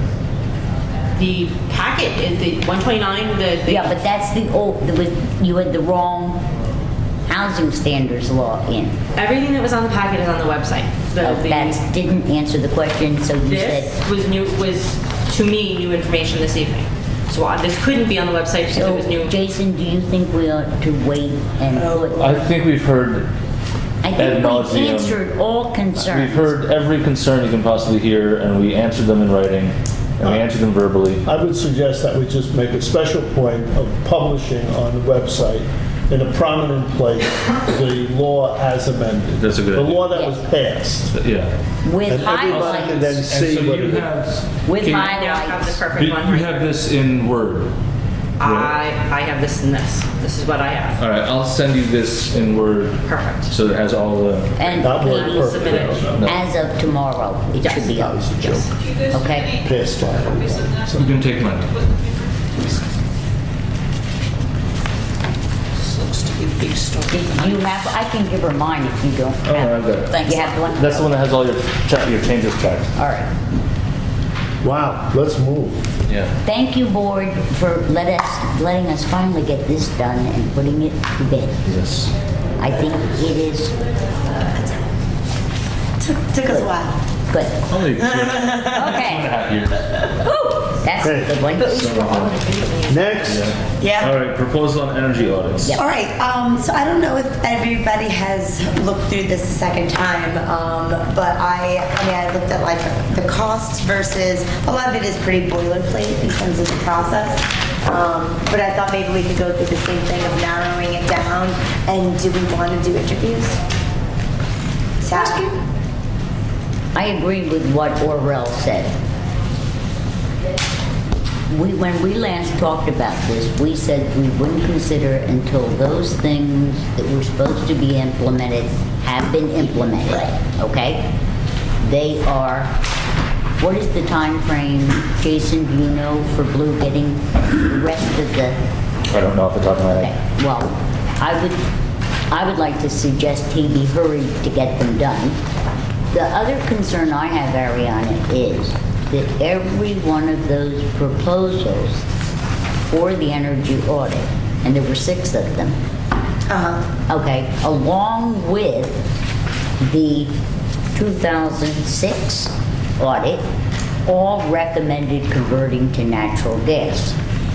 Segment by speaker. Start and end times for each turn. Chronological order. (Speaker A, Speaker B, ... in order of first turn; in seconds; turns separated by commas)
Speaker A: 1.1-4.0, Speaker B: 3.7-6.4, Speaker B: 7.3-9.0, Speaker A: 9.2-11.8, Speaker B: 11.2-13.9, Speaker A: 13.4-19.4, Speaker B: 18.7-22.5, Speaker C: 22.1-23.3, Speaker B: 24.0-26.6, Speaker C: 24.1-25.2, Speaker C: 26.0-31.2, Speaker D: 31.2-41.1, Speaker C: 39.3-40.0, Speaker C: 41.1-41.5, Speaker B: 41.9-43.1, Speaker D: 42.1-44.1, Speaker C: 42.2-45.2, Speaker B: 44.6-45.8, Speaker A: 44.9-46.6, Speaker C: 46.0-47.7, Speaker A: 48.4-51.0, Speaker C: 48.4-48.7, Speaker C: 51.0-56.5, Speaker A: 53.0-53.5, Speaker B: 54.6-55.6, Speaker A: 54.8-56.1, Speaker D: 54.8-56.0, Speaker B: 56.2-59.6, Speaker A: 57.6-57.9, Speaker D: 57.9-58.7, Speaker D: 59.5-61.2, Speaker C: 61.0-61.7, Speaker A: 66.8-67.4, Speaker B: 67.1-71.2, Speaker C: 69.5-72.9, Speaker B: 73.0-73.3, Speaker D: 74.6-75.8, Speaker C: 76.0-76.3, Speaker B: 76.4-81.6, Speaker C: 81.7-82.1, Speaker B: 82.6-83.8, Speaker E: 84.3-84.9, Speaker E: 86.0-87.0, Speaker B: 86.5-86.7, Speaker B: 87.3-87.7, Speaker C: 87.7-90.1, Speaker E: 87.9-88.9, Speaker B: 88.7-89.3, Speaker B: 90.2-91.9, Speaker D: 91.0-91.4, Speaker A: 91.5-93.2, Speaker C: 91.6-92.4, Speaker D: 92.9-93.5, Speaker C: 93.3-95.8, Speaker E: 93.8-94.1, Speaker B: 95.6-96.0, Speaker E: 95.7-113.6, Speaker E: 115.0-115.5, Speaker B: 117.0-119.0, Speaker B: 121.5-131.1, Speaker B: 131.8-132.7, Speaker B: 133.6-138.6, Speaker C: 139.1-140.2, Speaker B: 139.9-141.6, Speaker B: 142.3-145.4, Speaker B: 146.1-152.1, Speaker B: 152.9-155.8, Speaker E: 156.5-156.9, Speaker B: 157.0-159.0, Speaker B: 159.8-160.3, Speaker B: 160.9-163.4, Speaker B: 164.1-167.2